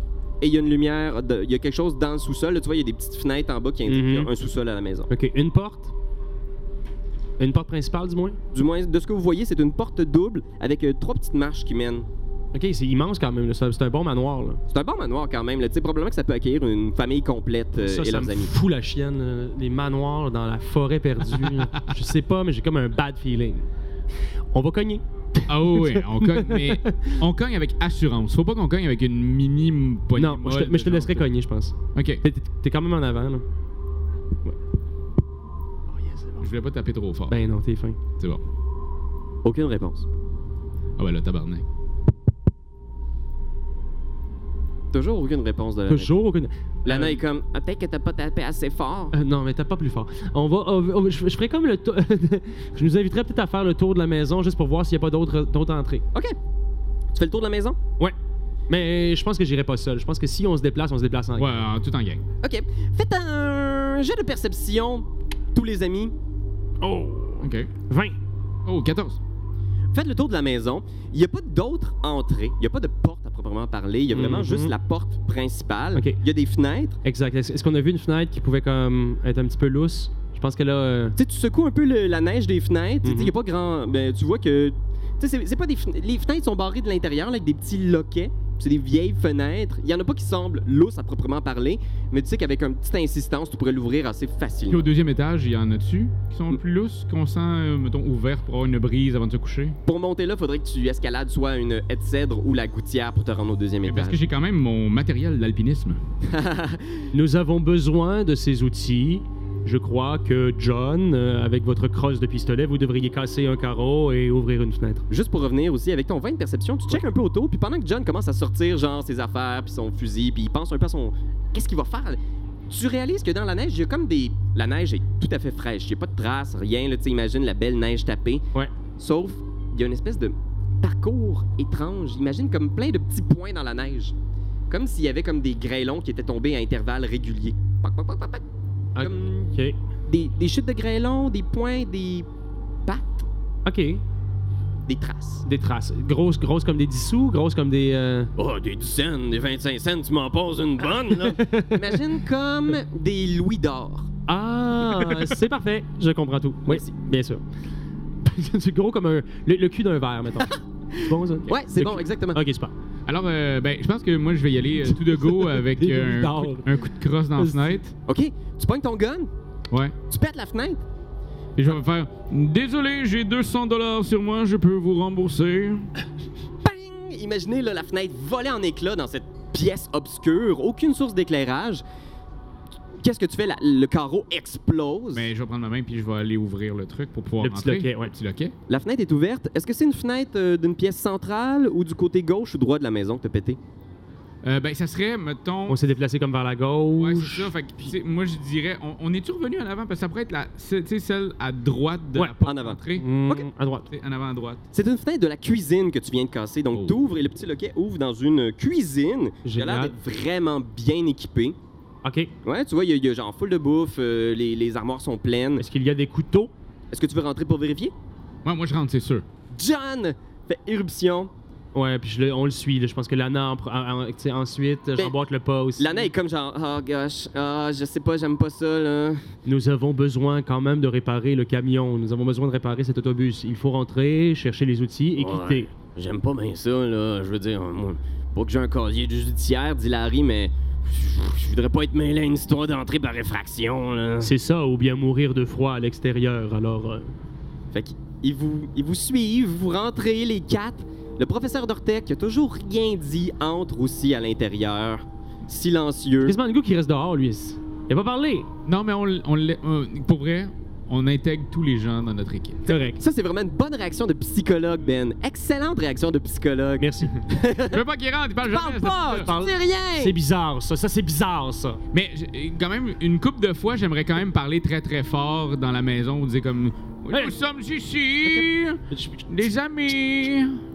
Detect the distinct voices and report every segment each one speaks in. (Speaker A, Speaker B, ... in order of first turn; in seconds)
Speaker A: 0.4-5.1, 8.5-12.1, 14.7-18.5, 39.4-40.0, 44.9-46.1, 46.8-49.1, 57.1-57.8, 62.4-66.1, 69.9-77.0, 81.2-94.9, 99.8-104.2, 106.2-107.0, 115.1-122.2, 122.7-128.4, 129.0-134.1, 134.7-138.4, 139.0-139.5, 140.1-142.3, 142.8-143.2, 144.9-145.4, 148.4-154.1, 160.4-162.4, 168.1-169.3, 170.1-170.8, 176.6-181.8, 183.0-185.3, 188.7-193.6, 202.4-203.5, 204.7-211.6, 212.4-215.6, 216.9-217.9, 219.5-221.3, 225.8-229.2, 235.2-244.3, 247.7-256.4, 262.7-267.8, 268.4-270.1
Speaker B: 3.9-4.3, 5.1-5.9, 7.4-8.4, 12.5-14.6, 17.8-23.6, 24.5-27.2, 30.1-33.4, 35.9-36.5, 37.3-38.0, 45.9-47.2, 49.1-56.0, 58.7-61.6, 66.8-68.2, 74.1-74.7, 77.0-81.2, 83.0-83.3, 107.1-115.0, 138.9-139.8, 143.6-144.0, 145.4-148.3, 151.3-151.8, 154.3-157.4, 158.2-162.7, 164.9-166.7, 167.3-167.8, 187.4-188.1, 195.7-197.5, 202.9-203.9, 209.4-209.9, 212.0-212.3, 215.6-216.5, 221.7-226.1, 229.4-235.7, 244.2-247.1, 256.2-258.5, 262.7-263.0, 266.8-267.1, 269.1-271.8, 278.3-279.5
Speaker C: 25.5-31.3, 31.9-32.2, 36.4-37.4, 41.0-41.6, 61.4-62.2, 67.4-67.7, 68.7-69.2, 94.7-99.8, 103.8-106.0, 163.1-167.9, 169.7-169.9, 171.6-175.9, 185.1-188.5, 194.4-195.8, 197.0-203.1, 203.9-204.6, 206.7-207.0, 218.4-219.2, 258.6-262.7, 267.7-269.3, 271.9-280.6